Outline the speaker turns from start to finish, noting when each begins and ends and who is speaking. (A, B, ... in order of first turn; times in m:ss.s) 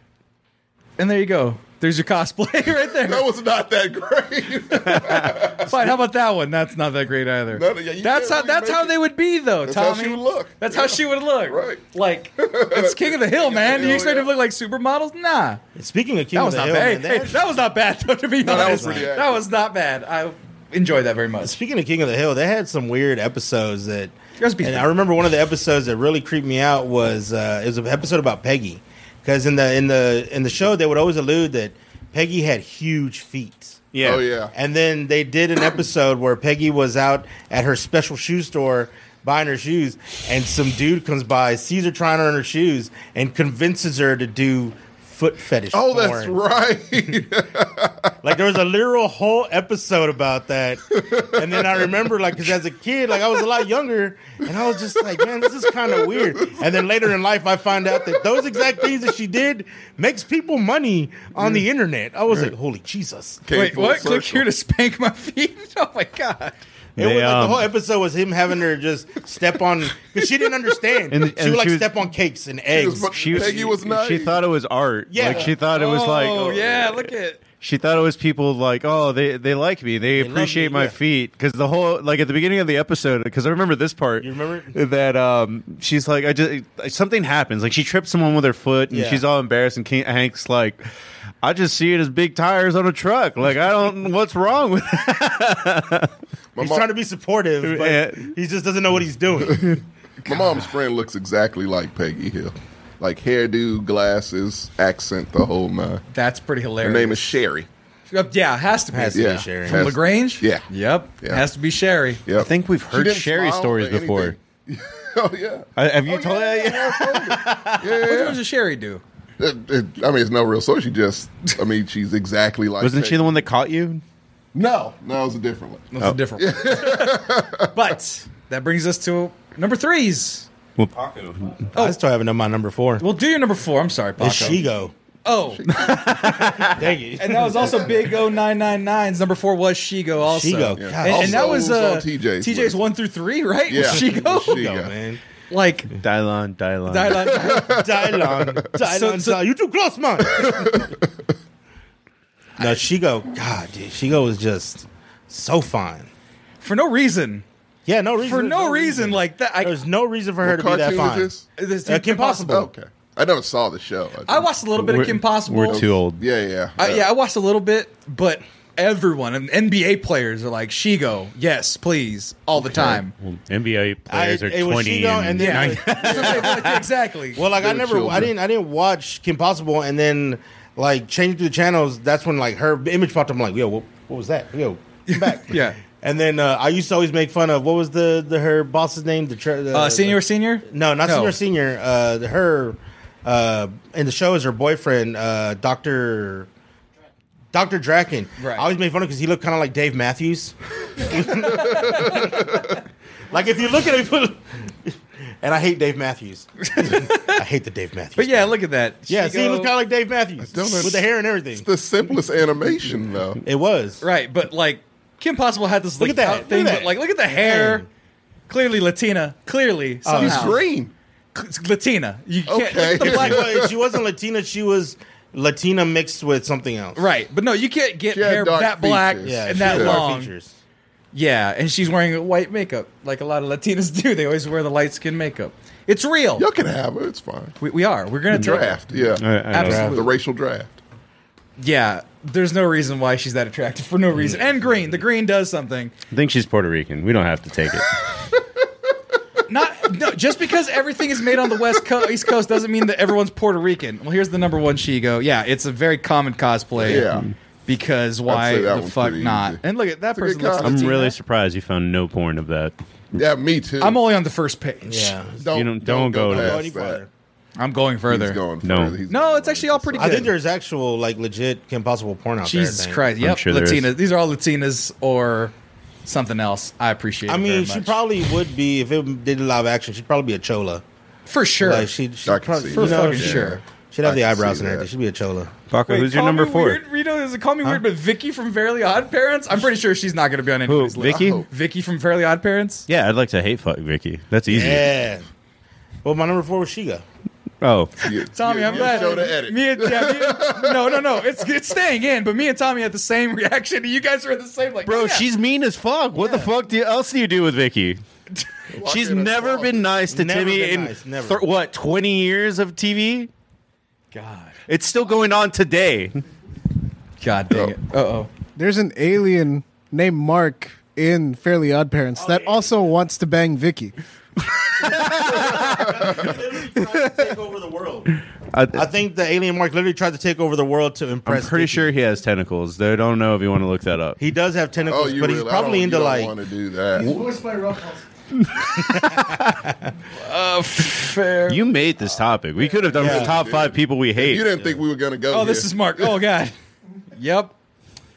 0:01.0-0:03.2 A
0:02.9-0:06.0 B
0:05.6-0:15.6 A
0:07.5-0:09.0 B
0:09.6-0:11.8 B
0:12.4-0:14.3 B
0:15.8-0:17.4 C
0:16.3-0:21.6 A
0:18.4-0:19.4 B
0:18.4-0:19.1 C
0:21.4-0:33.8 C
0:24.4-0:24.9 A
0:33.9-0:34.2 D
0:34.0-0:34.5 B
0:34.5-0:46.4 C
0:45.7-0:48.2 B
0:48.2-1:03.4 C
0:51.0-0:51.9 B
0:54.5-0:56.6 B
0:58.1-0:58.6 B
1:01.4-1:01.6 B
1:03.4-1:04.4 B
1:03.5-1:06.6 A
1:07.0-1:07.7 D
1:07.0-1:13.8 C
1:11.1-1:11.9 D
1:12.7-1:14.4 B
1:13.1-1:17.1 D
1:15.1-1:15.5 C
1:15.2-1:15.5 B
1:15.6-1:17.4 A
1:17.6-1:30.8 D
1:20.2-1:20.9 C
1:24.2-1:24.8 C
1:28.9-1:29.2 C
1:31.4-1:36.1 D
1:36.6-1:36.9 B
1:36.6-1:39.8 C
1:37.6-1:38.3 D
1:39.6-1:46.0 B
1:40.2-1:40.6 A
1:46.1-1:47.4 A
1:46.8-1:47.7 B
1:48.1-1:52.2 A
1:48.9-1:49.9 C
1:49.1-1:50.6 B
1:52.2-1:58.4 B
1:52.4-1:54.4 D
1:55.8-1:57.8 D
1:57.9-1:59.0 A
1:59.4-2:03.2 B
2:02.8-2:04.0 D
2:04.5-2:07.8 B
2:05.9-2:10.5 A
2:10.8-2:11.7 D
2:11.8-2:13.0 C
2:13.0-2:14.7 A
2:14.2-2:14.9 C
2:15.2-2:24.7 A
2:15.5-2:16.3 B
2:16.2-2:16.8 D
2:16.6-2:18.0 C
2:20.2-2:21.6 C
2:20.8-2:22.8 B
2:23.7-2:24.9 B
2:23.8-2:25.2 C
2:25.5-2:25.9 A
2:26.0-2:27.3 D
2:26.8-2:27.9 A
2:27.1-2:28.6 B
2:27.6-2:30.8 C
2:28.8-2:29.4 A
2:30.2-2:31.2 B
2:32.6-2:36.1 C
2:36.6-2:37.4 A
2:37.8-2:41.3 C
2:38.2-2:39.8 A
2:40.4-2:41.4 B
2:41.6-2:42.6 A
2:41.8-2:42.7 C
2:42.4-2:44.5 B
2:44.2-2:45.8 A
2:44.8-2:46.2 D
2:45.6-2:47.1 B
2:46.8-2:53.1 A
2:52.7-2:53.0 B
2:53.2-2:56.8 D
2:54.1-2:56.6 C
2:55.4-2:57.4 A
2:56.0-2:56.5 B
2:57.3-3:16.5 C
2:57.4-2:58.3 B
3:05.1-3:05.8 A
3:09.7-3:11.4 A
3:17.5-3:22.2 C
3:18.4-3:18.7 A
3:21.4-3:22.4 A
3:21.5-3:22.8 B
3:23.3-3:28.5 C
3:26.6-3:27.4 A
3:28.2-3:29.7 A
3:29.1-3:31.6 C
3:30.4-3:33.4 B
3:33.4-3:34.0 C
3:34.0-3:37.8 A
3:36.0-3:37.8 C
3:38.5-3:40.6 A
3:40.0-3:40.6 C
3:40.1-3:40.9 B
3:41.3-3:43.5 A
3:42.5-3:44.0 B
3:43.0-3:47.0 C
3:46.9-3:50.3 A
3:48.1-3:50.0 B
3:49.2-3:50.5 C
3:51.1-3:56.4 A
3:56.4-3:57.6 B
3:57.6-4:00.1 A
3:58.3-4:00.8 B
3:59.2-3:59.9 D
3:59.6-4:00.0 C
4:01.6-4:05.9 A
4:06.1-4:07.9 D
4:09.5-4:17.1 A
4:11.4-4:11.6 B
4:16.8-4:17.3 B
4:17.7-4:21.2 A
4:18.3-4:19.6 B
4:20.1-4:20.9 B
4:20.6-4:22.7 D
4:23.1-4:24.0 B
4:23.8-4:25.2 A
4:24.8-4:25.4 C
4:25.4-4:27.0 B
4:25.5-4:26.6 D
4:26.3-4:27.1 C
4:27.6-4:28.4 A
4:28.1-4:30.3 B
4:28.6-4:29.0 D
4:29.1-4:30.3 A
4:30.0-4:33.1 C
4:32.4-4:35.5 A
4:33.2-4:33.9 D
4:36.0-4:38.0 A
4:37.3-4:40.8 C
4:41.3-4:41.9 A
4:41.6-4:45.5 C
4:42.2-4:44.9 B
4:42.7-4:43.6 A
4:45.7-4:46.8 D
4:45.9-4:52.8 A
4:50.6-4:51.4 D
4:51.0-4:51.5 B
4:52.9-4:54.9 D
4:54.5-4:55.2 C
4:56.0-4:57.0 C
4:57.6-4:58.0 D
4:58.0-5:01.3 B
4:58.3-5:05.2 A
5:04.8-5:08.0 D
5:06.1-5:06.5 C
5:08.7-5:09.9 B
5:08.8-5:13.3 D
5:10.1-5:11.4 C
5:14.1-5:14.5 A
5:14.7-5:16.2 D
5:17.2-5:18.3 A
5:18.6-5:23.9 E
5:22.2-5:22.6 C
5:24.8-5:26.0 D
5:24.8-5:28.1 C
5:25.4-5:26.3 B
5:28.5-5:28.8 D
5:28.7-5:31.9 C
5:31.2-5:34.2 D
5:34.2-5:36.3 C
5:34.8-5:37.2 B
5:37.2-5:37.7 E
5:38.7-5:39.5 D
5:38.8-5:39.5 C
5:40.1-5:41.7 A
5:41.5-5:44.5 D
5:43.0-5:43.4 C
5:43.0-5:46.2 B
5:45.3-5:46.5 A
5:47.1-5:47.5 A